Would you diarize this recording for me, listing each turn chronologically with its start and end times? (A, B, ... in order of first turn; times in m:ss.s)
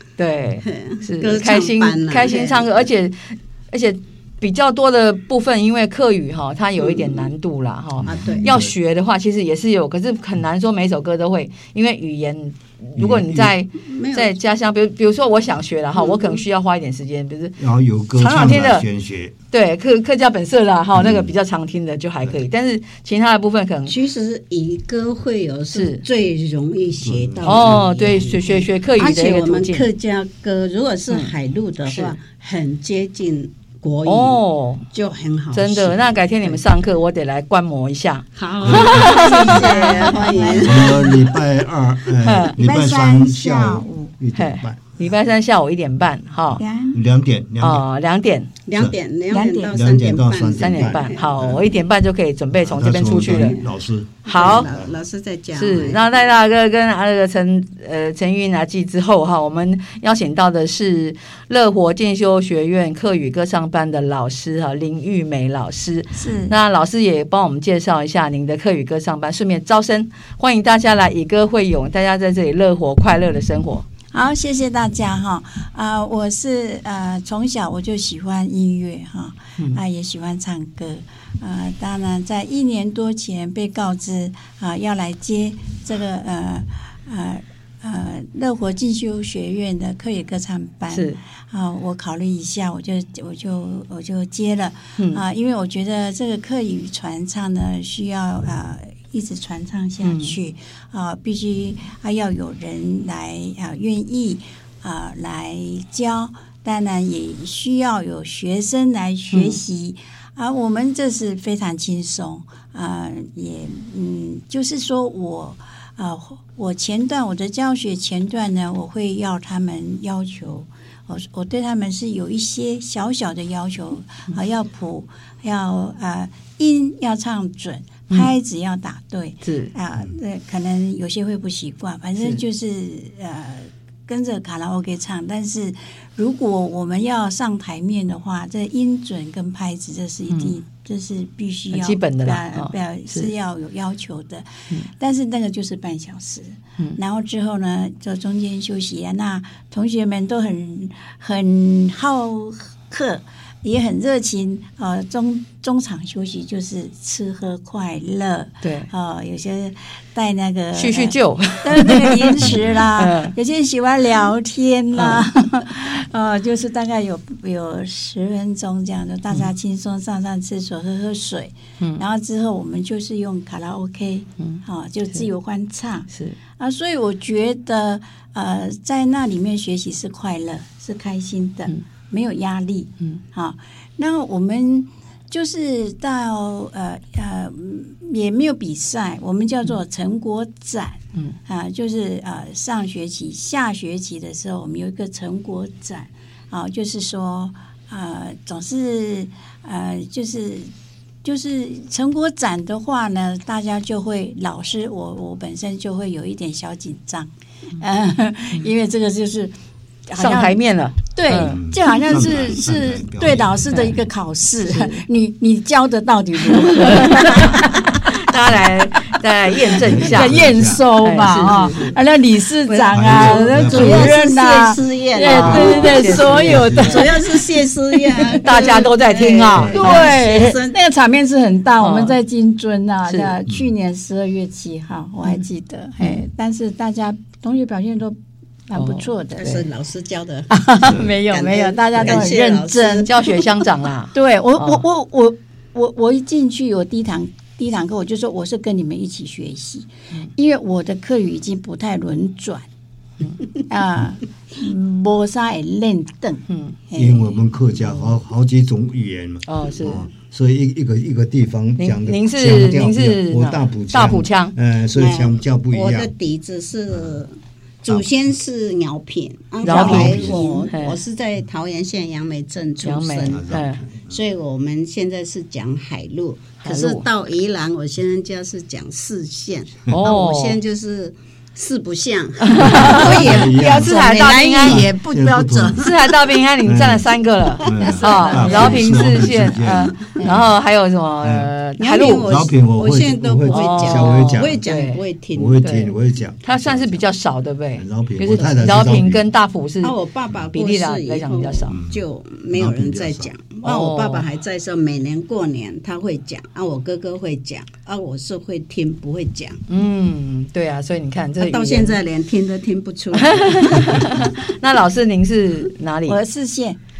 0:00.2-0:17.6 A
0:00.6-0:02.9 B
0:06.8-0:07.3 B
0:08.0-0:08.8 C
0:08.0-0:08.5 B
0:13.0-0:13.5 C
0:13.8-0:14.4 B
0:16.0-0:16.4 B
0:17.6-0:19.3 C
0:18.1-0:18.9 A
0:19.5-0:23.9 A
0:21.0-0:21.3 C
0:23.9-0:36.6 B
0:25.7-0:26.0 A
0:27.0-0:28.2 C
0:27.5-0:29.8 A
0:31.9-0:32.2 A
0:34.0-0:34.8 A
0:35.5-0:40.2 A
0:38.4-0:41.0 B
0:38.6-0:39.7 C
0:39.1-0:41.3 D
0:40.4-0:45.2 C
0:42.2-0:42.6 A
0:42.5-0:44.2 D
0:44.4-0:46.6 A
0:46.5-0:47.8 C
0:46.6-0:47.0 D
0:47.6-0:48.5 A
0:48.7-0:51.3 B
0:49.3-0:49.7 D
0:49.7-0:51.8 C
0:50.6-0:53.6 A
0:52.5-0:54.9 C
0:54.3-0:54.7 A
0:54.3-0:56.1 B
0:55.5-1:13.9 A
1:06.1-1:06.6 D
1:14.1-3:20.7 D
1:30.9-1:31.2 A
1:40.0-1:40.4 A
1:49.3-1:49.6 A
2:09.4-2:09.7 A
2:20.3-2:20.6 A
2:21.7-2:23.3 A
2:38.6-2:38.9 A
2:40.7-2:43.3 A
2:45.0-2:45.2 A
2:56.1-2:56.4 A
3:21.2-3:29.5 D
3:30.1-3:30.6 D
3:30.2-3:31.6 A
3:31.1-3:37.9 D
3:31.4-3:33.9 C
3:34.6-3:35.0 A
3:36.9-3:37.4 A
3:38.2-3:40.4 A
3:39.8-3:48.8 D
3:39.8-3:40.9 C
3:41.0-3:42.0 A
3:42.6-3:46.1 B
3:42.9-3:44.2 C
3:45.3-3:47.0 A
3:45.3-3:47.1 C
3:46.7-3:50.8 B
3:48.3-3:50.5 A
3:49.6-3:58.2 D
3:51.8-3:52.2 A
3:53.1-3:53.4 A
3:58.7-3:59.6 D
3:58.7-3:59.6 A
3:59.4-4:03.3 B
4:00.5-4:03.4 D
4:02.0-4:02.2 A
4:03.0-4:04.8 A
4:04.1-4:12.6 D
4:13.6-4:17.4 D
4:16.5-4:16.8 A
4:16.9-4:26.1 C
4:17.8-4:18.1 A
4:19.5-4:20.0 A
4:21.8-4:24.6 A
4:25.0-4:46.0 B
4:29.6-4:31.0 A
4:29.6-4:30.6 C
4:32.8-4:33.8 A
4:33.3-4:34.2 C
4:36.6-4:37.1 A
4:39.9-4:40.6 A
4:42.4-4:44.9 A
4:42.6-4:45.8 C
4:45.8-4:52.3 A
4:46.6-4:50.6 C
4:47.7-4:49.1 B
4:49.9-4:50.5 B
4:51.2-4:51.5 C
4:51.8-4:55.6 B
4:52.2-4:54.6 C
4:53.5-4:55.0 A
4:55.3-4:57.1 C
4:55.6-4:59.9 A
4:57.7-4:59.3 C
4:58.4-4:58.9 B
4:59.8-5:09.6 B
5:00.5-5:01.8 A
5:01.7-5:02.0 C
5:02.5-5:03.3 C
5:03.6-5:04.2 A
5:09.7-5:12.0 A
5:11.4-5:14.0 B
5:13.2-5:16.2 A
5:16.1-5:16.8 D